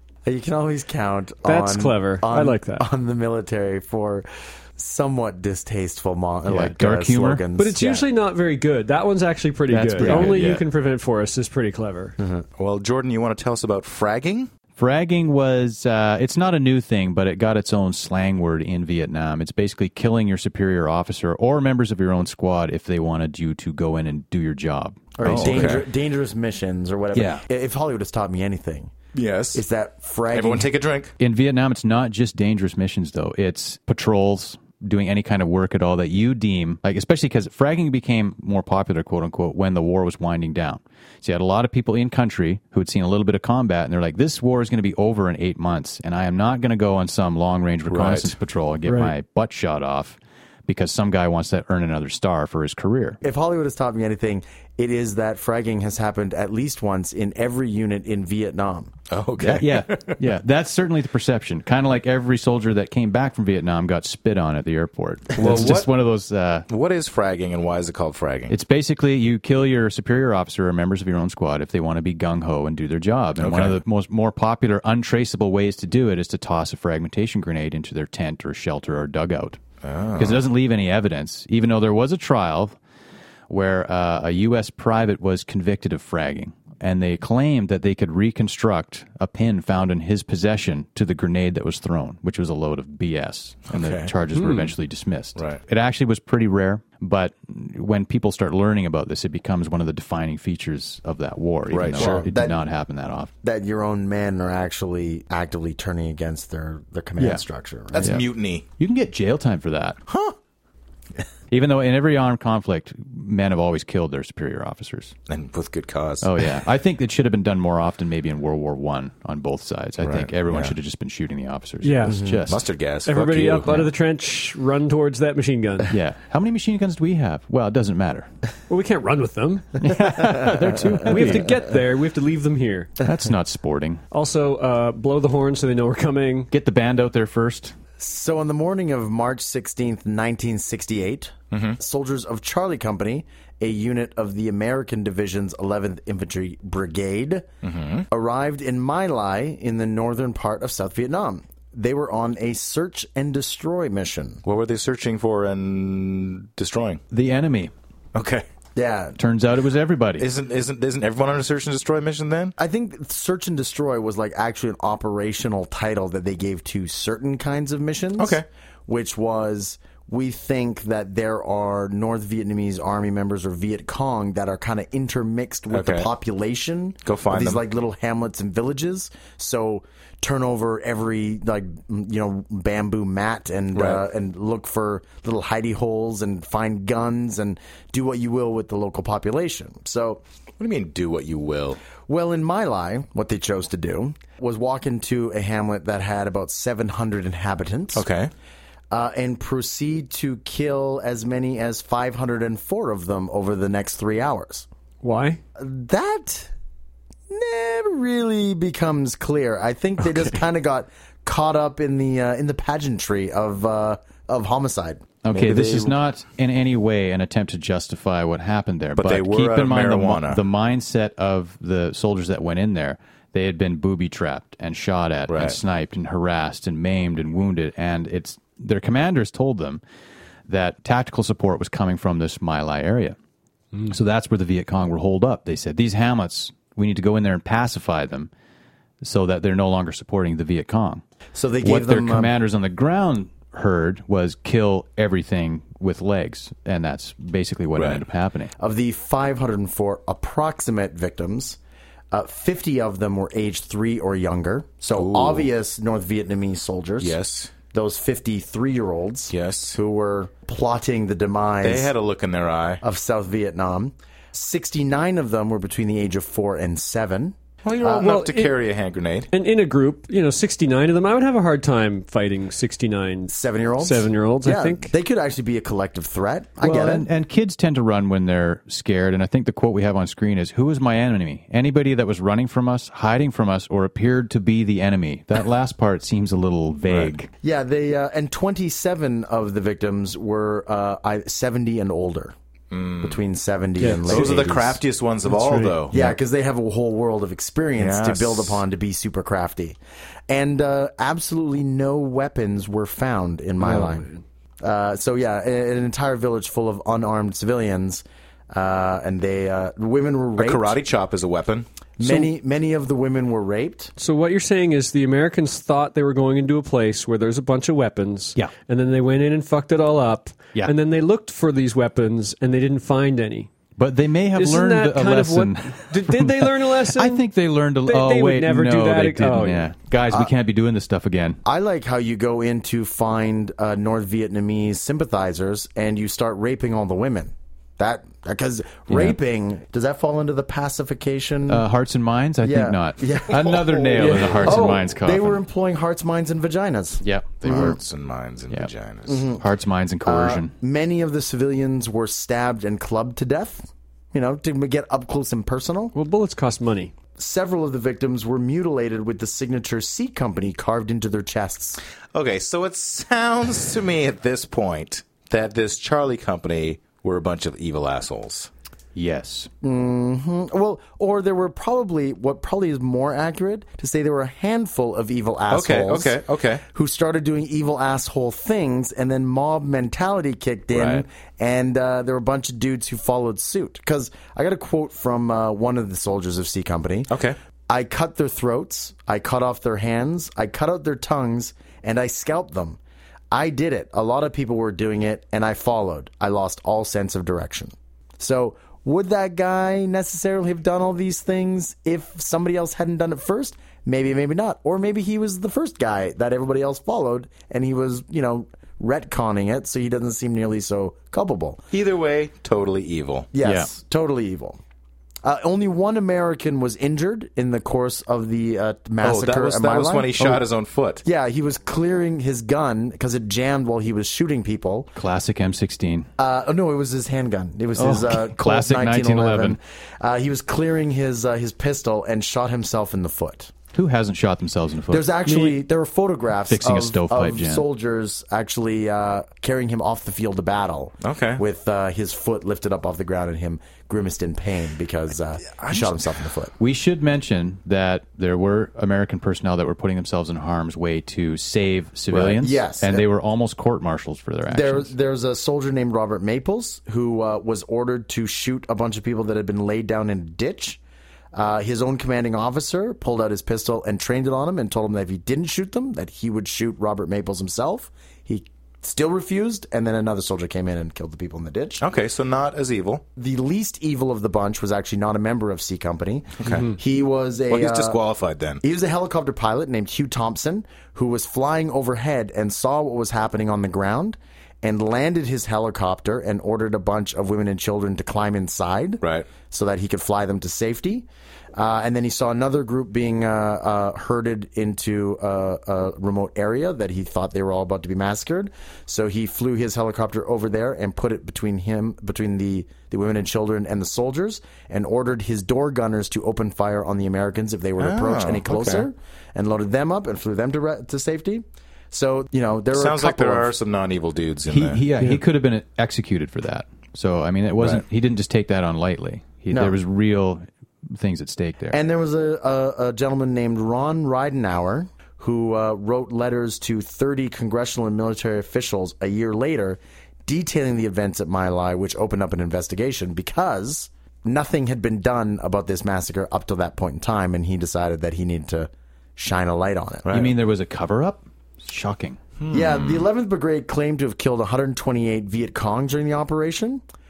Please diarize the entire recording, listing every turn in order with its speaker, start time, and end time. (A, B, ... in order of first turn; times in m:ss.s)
0:00.2-0:08.1 A
0:01.4-0:02.8 B
0:06.5-0:07.4 C
0:07.6-0:12.2 B
0:09.7-0:10.4 C
0:10.0-0:10.6 D
0:12.2-0:12.4 A
0:12.6-0:14.5 D
0:14.8-0:25.8 C
0:25.2-0:28.9 A
0:25.2-0:25.8 D
0:27.1-0:27.4 C
0:29.1-0:29.6 D
0:29.5-0:30.7 A
0:30.3-0:31.1 D
0:31.2-0:53.2 C
0:47.9-0:48.3 D
0:48.9-0:49.1 B
0:53.2-0:59.0 A
0:59.1-1:00.2 D
0:59.4-1:06.7 C
1:05.3-1:05.9 D
1:06.7-1:08.6 D
1:08.5-1:19.6 C
1:13.4-1:13.8 D
1:19.8-1:20.4 D
1:20.2-1:22.8 C
1:23.5-1:43.3 C
1:33.7-1:34.1 D
1:34.3-1:34.7 B
1:35.4-1:35.6 D
1:41.7-1:42.2 D
1:41.9-1:42.6 A
1:43.4-1:48.2 A
1:47.2-1:47.4 C
1:47.9-1:48.6 D
1:48.0-1:50.0 C
1:50.1-1:50.4 D
1:51.5-1:55.1 C
1:55.3-1:56.5 D
1:56.2-2:02.6 C
2:00.0-2:00.8 D
2:01.8-2:02.2 B
2:02.1-2:02.4 A
2:02.5-2:03.7 D
2:03.0-2:06.0 B
2:03.6-2:03.9 C
2:05.9-2:08.3 C
2:08.7-2:13.0 B
2:09.8-2:11.5 C
2:13.0-2:14.0 C
2:14.1-2:16.5 B
2:16.5-2:17.8 C
2:18.0-2:27.5 A
2:21.5-2:21.8 D
2:27.6-2:28.1 D
2:28.1-2:34.4 A
2:34.4-2:37.0 D
2:37.1-2:37.7 C
2:38.1-2:38.5 D
2:38.7-2:39.2 A
2:39.2-2:40.3 C
2:40.2-2:42.5 D
2:42.6-3:10.2 A
2:48.2-2:48.4 D
2:55.7-2:56.1 D
2:57.0-2:57.6 D
3:03.7-3:04.0 D
3:10.6-3:11.8 D
3:12.1-3:18.1 A
3:17.9-3:18.3 D
3:18.9-3:24.7 A
3:25.0-3:25.4 B
3:25.6-3:26.5 A
3:27.3-3:35.9 A
3:35.2-3:49.8 C
3:35.3-3:35.9 D
3:39.0-3:40.4 D
3:45.3-3:45.6 D
3:50.5-3:53.2 C
3:53.9-3:58.3 C
3:59.0-4:01.0 C
4:01.3-4:02.3 A
4:01.6-4:08.5 C
4:07.8-4:08.0 D
4:08.6-4:11.6 A
4:12.1-4:17.2 A
4:14.9-4:15.5 D
4:17.0-4:17.5 D
4:17.7-4:21.9 A
4:19.3-4:19.8 D
4:21.6-4:22.8 D
4:22.8-4:28.1 A
4:27.6-4:29.3 D
4:28.0-4:28.6 B
4:29.3-4:34.9 B
4:33.3-4:37.1 A
4:36.6-4:47.3 C
4:46.9-4:47.1 D
4:47.4-4:52.3 A
4:52.7-4:53.2 D
4:53.0-4:54.8 A
4:53.8-4:54.5 B
4:53.9-4:56.1 D
4:55.2-4:55.8 B
4:55.9-5:04.1 A
4:57.8-4:58.6 D
5:03.6-5:04.2 B
5:04.6-5:10.8 A
5:10.4-5:11.6 D
5:12.0-5:13.9 A
5:14.0-5:23.5 B
5:23.8-5:31.4 C
5:24.3-5:27.2 B
5:27.8-5:29.7 B
5:31.4-5:41.6 A
5:38.9-5:39.2 C
5:41.5-5:45.4 C
5:42.4-5:47.8 A
5:44.0-5:44.6 D
5:44.0-5:44.2 B
5:47.0-5:47.8 C
5:47.4-5:49.3 D
5:49.0-5:49.4 A
5:49.4-5:50.5 C
5:50.0-5:55.9 A
5:55.9-5:56.9 B
5:57.2-6:01.8 A
6:02.1-6:08.5 D
6:08.9-6:09.5 C
6:09.6-6:27.1 A
6:15.5-6:16.6 D
6:20.7-6:21.0 D
6:27.1-6:27.4 D
6:27.7-6:32.8 A
6:33.3-6:51.6 A
6:51.7-6:53.3 D
6:53.3-6:54.6 A
6:53.4-6:53.7 C
6:55.2-7:00.2 A
6:59.0-7:01.0 D
7:01.0-7:04.9 A
7:04.9-7:06.1 C
7:06.2-7:13.5 A
7:07.8-7:09.6 C
7:13.7-7:15.1 C
7:14.9-7:26.5 A
7:15.2-7:15.6 B
7:16.5-7:17.6 C
7:21.0-7:21.4 D
7:25.5-7:25.9 D
7:26.6-7:34.9 C
7:32.1-7:33.0 A
7:34.5-7:40.8 A
7:41.3-7:51.8 A
7:51.8-7:53.0 D
7:53.2-7:58.0 A
7:56.4-7:56.8 D
7:57.5-7:58.6 D
7:58.6-8:33.5 A
8:09.0-8:09.3 D
8:27.8-8:28.9 D
8:32.7-8:34.8 D
8:34.5-8:41.8 C
8:37.6-8:37.8 D
8:39.5-8:39.8 A
8:41.7-9:00.2 A
9:00.1-9:00.3 D
9:00.1-9:02.2 C
9:02.4-9:03.1 D
9:02.5-9:06.8 A